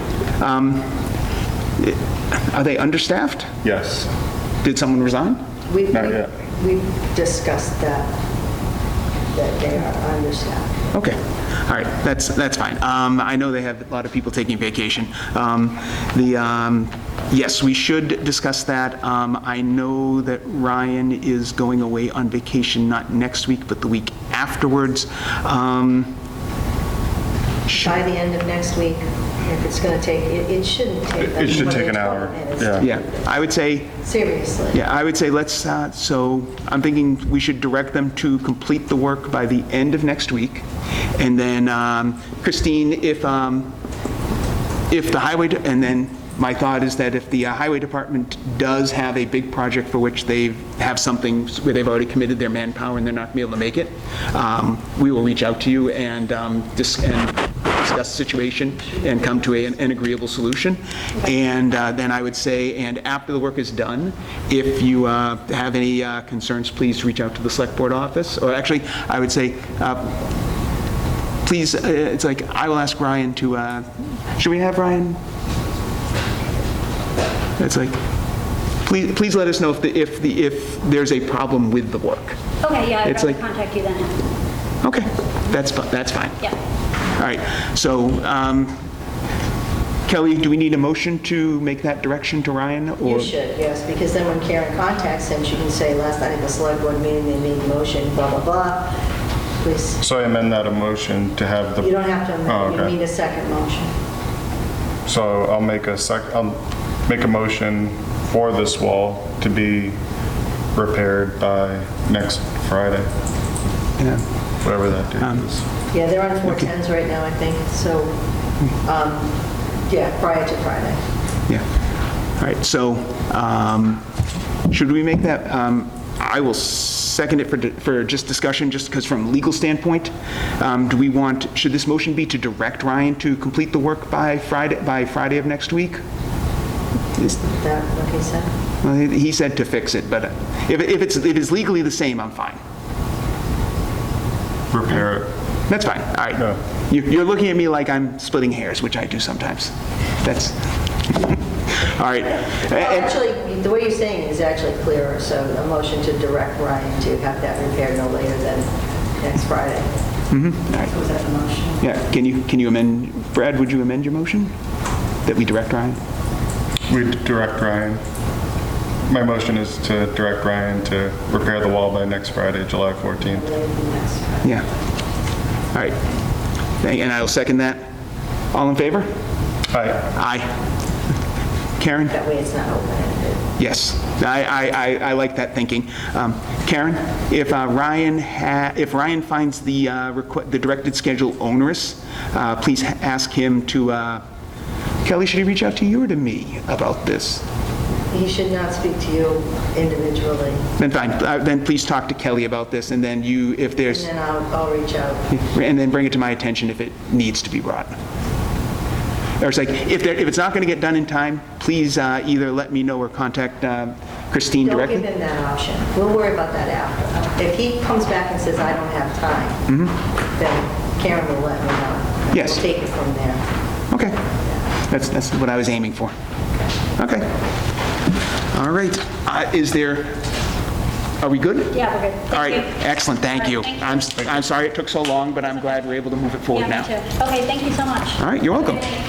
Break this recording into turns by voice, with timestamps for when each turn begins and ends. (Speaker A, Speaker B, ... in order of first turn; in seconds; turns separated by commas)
Speaker A: 0.4-1.1, Speaker A: 1.8-3.5, Speaker B: 3.6-4.1, Speaker A: 4.6-5.4, Speaker C: 5.7-8.1, Speaker B: 5.9-6.3, Speaker C: 9.3-10.7, Speaker A: 10.9-26.2, Speaker C: 27.7-33.3, Speaker B: 31.2-32.9, Speaker A: 32.8-33.9, Speaker C: 34.0-34.8, Speaker A: 34.7-40.7, Speaker A: 41.2-43.7, Speaker A: 44.9-70.1, Speaker A: 71.5-75.2, Speaker A: 77.6-78.0, Speaker A: 78.8-82.4, Speaker D: 82.6-84.2, Speaker A: 83.0-83.4, Speaker A: 84.8-86.5, Speaker A: 87.2-88.8, Speaker A: 90.1-93.3, Speaker C: 93.0-98.9, Speaker C: 99.6-100.0, Speaker B: 100.0-102.9, Speaker C: 101.8-103.9, Speaker B: 105.0-110.0, Speaker B: 110.7-113.1, Speaker B: 114.6-115.7, Speaker C: 115.9-118.2, Speaker C: 118.8-121.0, Speaker A: 122.4-124.0, Speaker A: 124.7-136.0, Speaker C: 137.3-138.5, Speaker A: 138.8-142.6, Speaker B: 144.7-145.3, Speaker A: 145.7-149.7, Speaker A: 150.2-150.6, Speaker A: 151.1-153.1, Speaker C: 152.4-159.9, Speaker A: 160.3-160.9, Speaker C: 160.8-161.8, Speaker A: 161.8-164.5, Speaker A: 165.3-166.0, Speaker B: 166.9-168.0, Speaker B: 169.1-173.4, Speaker C: 173.3-174.8, Speaker A: 176.8-177.8, Speaker A: 178.5-179.1, Speaker B: 179.7-180.1, Speaker A: 180.1-180.5, Speaker A: 181.8-182.1, Speaker C: 182.1-183.4, Speaker A: 183.6-194.2, Speaker A: 195.0-197.4, Speaker C: 198.1-200.6, Speaker A: 200.8-204.1, Speaker C: 203.9-205.3, Speaker A: 205.3-207.9, Speaker A: 209.4-215.1, Speaker C: 214.6-219.6, Speaker A: 219.7-219.9, Speaker C: 220.3-223.4, Speaker A: 222.3-222.6, Speaker A: 223.9-224.2, Speaker A: 224.9-226.1, Speaker A: 227.0-227.3, Speaker A: 228.5-230.2, Speaker A: 231.2-236.9, Speaker D: 231.7-234.0, Speaker D: 236.5-238.2, Speaker A: 238.2-238.9